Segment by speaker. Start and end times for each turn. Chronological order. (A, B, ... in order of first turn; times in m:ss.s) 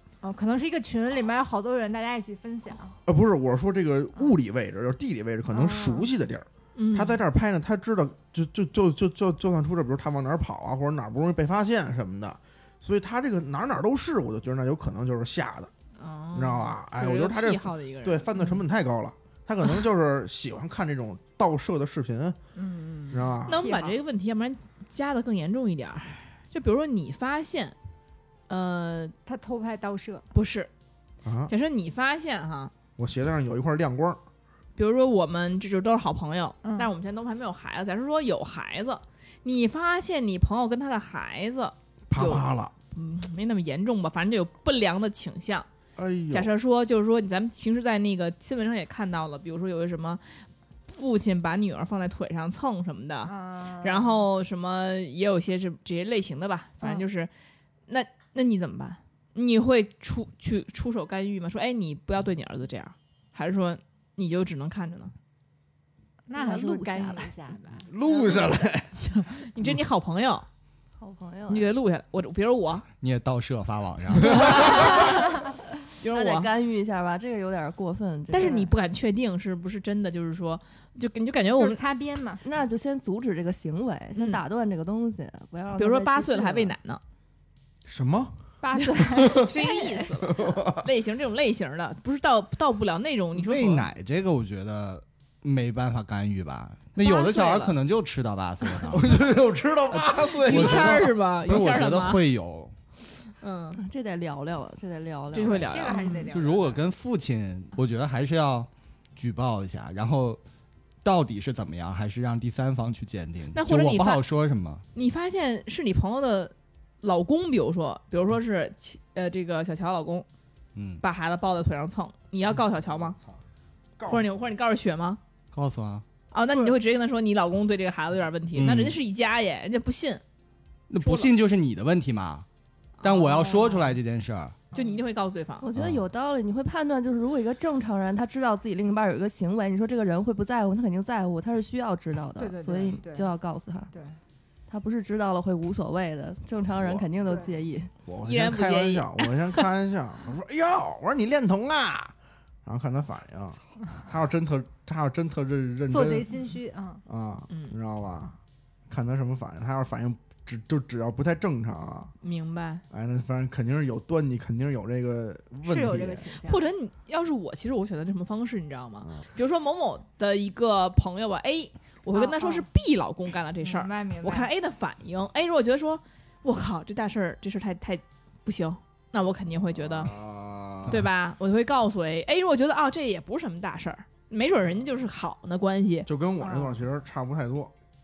0:00.2-0:03.0 A
0:03.1-0:15.7 B
0:05.5-0:06.1 A
0:06.8-0:07.2 C
0:16.0-0:18.3 C
0:16.4-0:22.4 B
0:22.6-0:24.0 A
0:23.1-0:23.6 B
0:23.5-0:27.8 C
0:28.5-0:29.2 C
0:29.3-0:30.2 A
0:30.3-0:30.7 C
0:31.2-0:31.5 B
0:31.5-0:32.7 C
0:33.0-0:34.2 B
0:34.8-0:45.7 C
0:36.6-0:36.9 A
0:42.1-0:42.7 B
0:46.0-0:46.5 B
0:46.3-0:57.3 C
0:53.3-0:54.2 A
0:57.9-1:05.1 C
1:06.3-1:08.4 A
1:06.4-1:07.3 D
1:07.9-1:09.0 B
1:09.1-1:10.5 C
1:11.0-1:11.7 D
1:11.5-1:12.9 C
1:13.0-1:14.8 E
1:14.3-1:15.4 C
1:16.0-1:16.5 C
1:16.1-1:18.7 D
1:18.3-1:21.8 C
1:21.6-1:22.4 A
1:22.4-1:26.7 D
1:24.2-1:24.4 C
1:25.8-1:27.0 C
1:27.9-1:28.4 B
1:28.6-1:33.9 C
1:28.7-1:30.1 A
1:30.3-1:30.9 B
1:33.4-1:39.1 E
1:37.0-1:37.8 C
1:38.9-1:41.1 B
1:40.4-1:42.2 C
1:40.5-1:42.8 E
1:43.4-1:43.8 C
1:43.8-1:46.1 D
1:45.3-1:46.3 C
1:45.4-1:46.8 A
1:46.3-1:50.4 E
1:51.0-1:54.8 E
1:53.6-1:54.2 C
1:55.0-2:00.3 C
2:00.8-2:01.0 E
2:01.0-2:03.2 C
2:02.9-2:03.4 B
2:04.0-2:04.2 B
2:04.1-2:05.2 C
2:05.5-2:06.0 E
2:06.3-2:10.2 C
2:08.6-2:09.0 E
2:10.9-2:12.4 E
2:11.0-2:11.3 C
2:13.0-2:13.7 C
2:13.0-2:14.6 E
2:13.4-2:13.9 A
2:14.7-2:15.0 A
2:14.7-2:15.7 C
2:15.6-2:23.9 D
2:15.8-2:16.0 E
2:22.4-2:23.3 A
2:24.7-2:27.9 D
2:26.8-2:27.1 B
2:28.0-2:36.3 B
2:28.2-2:29.7 C
2:35.9-2:37.0 A
2:37.1-2:38.4 B
2:37.5-2:37.8 C
2:38.9-2:42.1 B
2:42.2-2:42.8 C
2:42.9-2:46.3 B
2:45.6-2:46.6 A
2:46.4-3:00.1 C
2:52.1-2:52.6 A
2:53.6-2:54.5 A
2:59.8-3:01.0 B
3:00.9-3:06.1 C
3:06.0-3:07.7 B
3:06.4-3:06.7 A